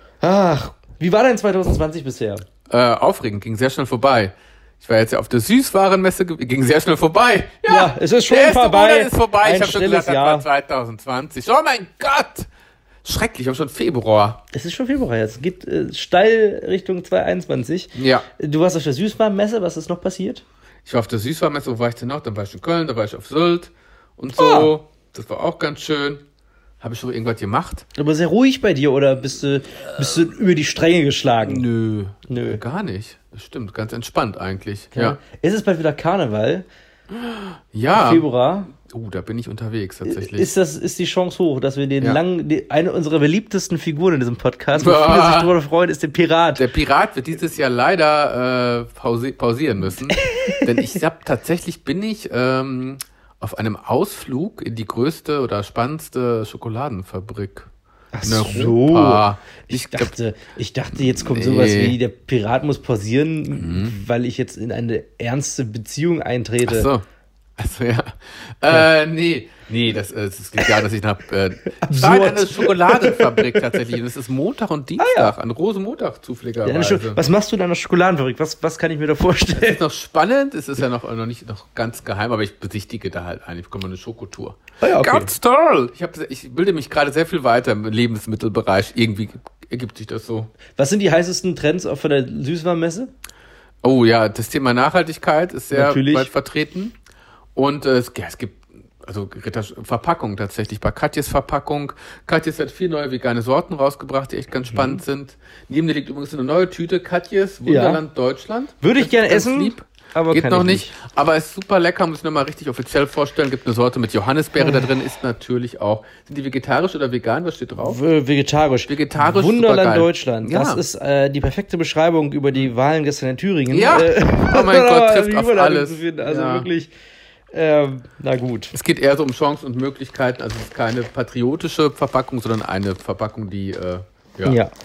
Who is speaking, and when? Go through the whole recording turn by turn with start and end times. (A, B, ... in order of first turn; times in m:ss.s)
0:00.2-0:02.4 A
0:02.7-0:12.5 B
0:07.7-0:10.4 A
0:13.0-0:14.4 B
0:14.5-0:20.4 A
0:18.0-0:18.3 B
0:20.8-0:26.2 B
0:24.4-0:24.7 A
0:26.8-0:27.9 B
0:28.0-0:31.6 A
0:31.4-0:35.2 B
0:32.3-0:32.6 A
0:34.9-0:36.6 A
0:37.1-0:40.5 B
0:37.9-0:38.7 A
0:40.0-0:46.6 A
0:44.8-0:45.5 B
0:46.6-0:57.7 B
0:50.1-0:51.0 A
0:58.1-1:06.9 A
0:58.2-1:00.1 B
1:01.0-1:02.0 B
1:03.6-1:04.0 B
1:06.6-1:07.0 B
1:07.6-1:17.2 B
1:11.8-1:13.8 A
1:15.0-1:15.3 A
1:16.6-1:19.8 A
1:19.5-1:30.5 B
1:24.8-1:25.3 A
1:30.8-1:33.1 A
1:33.8-1:37.0 B
1:35.7-1:36.3 A
1:37.6-1:58.0 B
1:44.7-1:45.0 A
1:47.6-1:48.0 A
1:48.8-1:50.9 A
1:54.6-1:54.9 A
1:57.8-2:06.9 A
1:58.9-2:00.8 B
2:03.7-2:06.7 B
2:07.5-2:08.7 A
2:08.7-2:14.6 B
2:14.4-2:14.7 A